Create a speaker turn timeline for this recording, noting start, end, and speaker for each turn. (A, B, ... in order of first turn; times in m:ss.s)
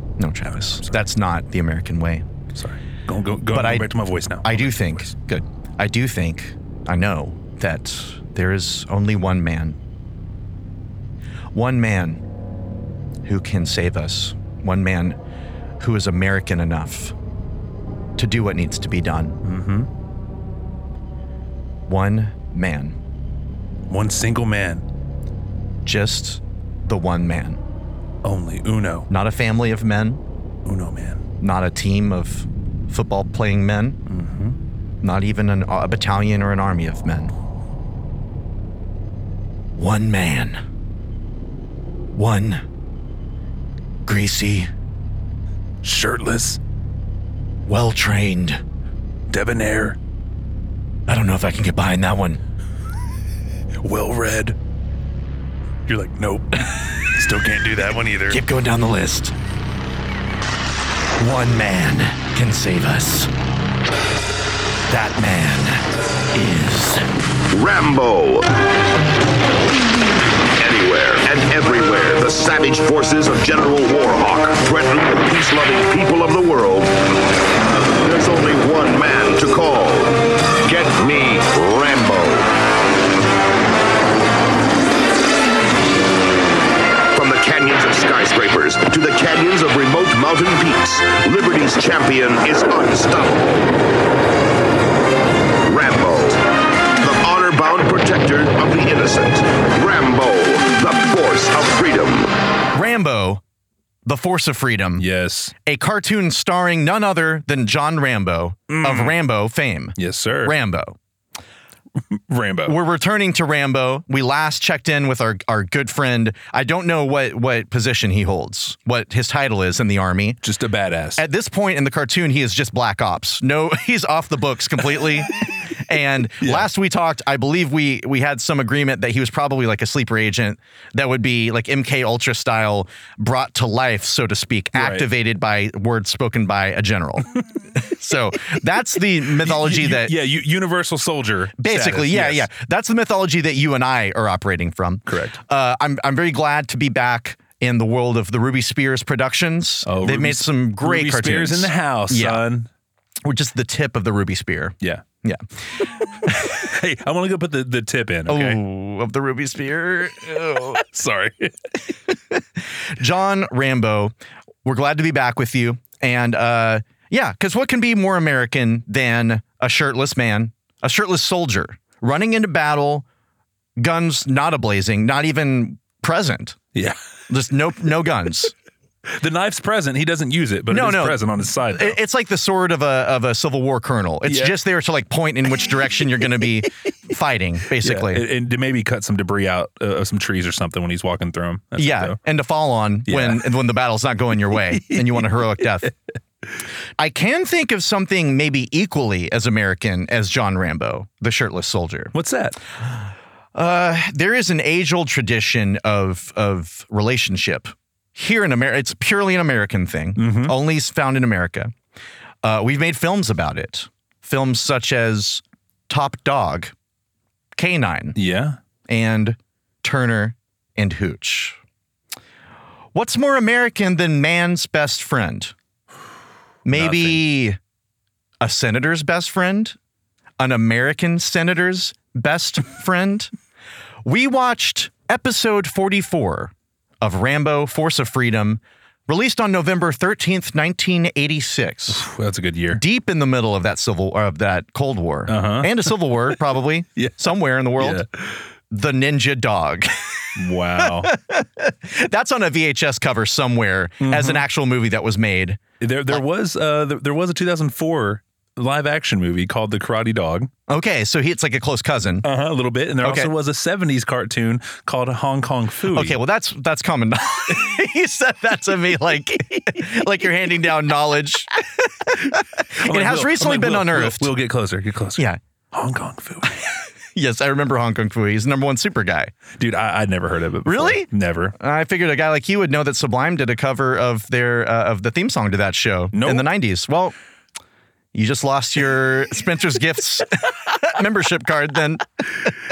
0:00.2-0:02.2 A
0:00.4-0:01.0 B
0:02.5-0:05.1 B
0:03.5-0:09.8 A
0:11.5-0:12.2 A
0:13.2-0:15.2 A
0:15.8-0:17.1 A
0:18.2-0:19.4 A
0:19.4-0:19.9 B
0:21.9-0:23.0 A
0:23.9-0:24.8 B
0:25.8-0:27.6 A
0:28.2-0:29.1 B
0:29.1-0:30.2 A
0:30.6-0:31.2 B
0:31.4-0:34.0 A
0:34.1-0:34.6 B
0:35.0-0:37.3 A
0:39.7-0:40.6 A
0:42.1-0:42.6 A
0:44.0-0:44.7 A
0:45.8-0:46.6 B
0:47.7-0:48.6 A
0:49.3-0:50.0 B
0:51.1-0:52.4 A
0:53.8-0:54.6 B
0:55.8-0:58.4 B
0:58.3-0:59.3 A
1:01.2-1:03.3 A
1:04.9-1:07.0 A
1:07.5-1:08.4 C
1:10.6-1:17.0 C
1:18.0-1:22.5 C
1:27.1-1:33.6 C
1:35.6-1:36.4 C
1:37.0-1:42.3 C
1:42.7-1:43.4 A
1:44.0-1:45.0 A
1:45.0-1:45.5 B
1:45.6-1:51.0 A
1:48.7-1:49.2 B
1:50.0-1:50.6 B
1:52.2-1:52.8 B
1:52.6-2:00.4 A
2:00.4-2:01.2 B
2:01.2-2:20.2 A
2:06.4-2:06.7 B
2:14.7-2:15.1 B
2:19.4-2:22.5 B
2:21.6-2:32.4 A
2:25.1-2:25.4 B
2:29.8-2:32.7 B
2:33.2-2:35.4 A
2:36.2-2:36.6 A
2:36.5-2:38.6 B
2:38.3-2:40.8 A
2:40.7-2:41.6 B
2:43.0-2:53.0 A
2:53.8-2:56.6 A
2:57.3-2:58.5 A
2:59.1-3:02.0 B
3:00.7-3:08.2 A
3:04.2-3:04.6 B
3:07.8-3:12.2 B
3:11.8-3:15.9 A
3:13.1-3:13.5 B
3:14.9-3:15.2 B
3:17.0-3:22.1 A
3:22.1-3:22.6 B
3:23.5-3:31.7 A
3:30.1-3:30.5 B
3:32.4-3:36.7 A
3:37.5-3:38.2 A
3:38.1-3:38.6 B
3:38.9-3:41.6 A
3:42.9-3:45.5 A
3:46.6-3:47.6 A
3:46.7-3:47.2 B
3:48.4-3:49.8 A
3:50.4-3:53.3 A
3:54.0-4:02.1 A
4:01.9-4:02.8 B
4:02.7-4:08.0 A
4:05.3-4:06.3 B
4:07.0-4:08.2 B
4:08.7-4:09.9 A
4:10.4-4:11.1 B
4:10.8-4:16.2 A
4:14.0-4:14.4 B
4:15.8-4:20.5 B
4:20.7-4:22.3 A
4:22.2-4:26.2 B
4:23.0-4:23.3 A
4:25.9-4:34.3 A
4:32.8-4:36.6 B
4:37.1-4:39.3 A
4:39.6-4:41.6 B
4:40.6-4:47.1 A
4:46.1-4:46.5 B
4:48.1-4:52.5 A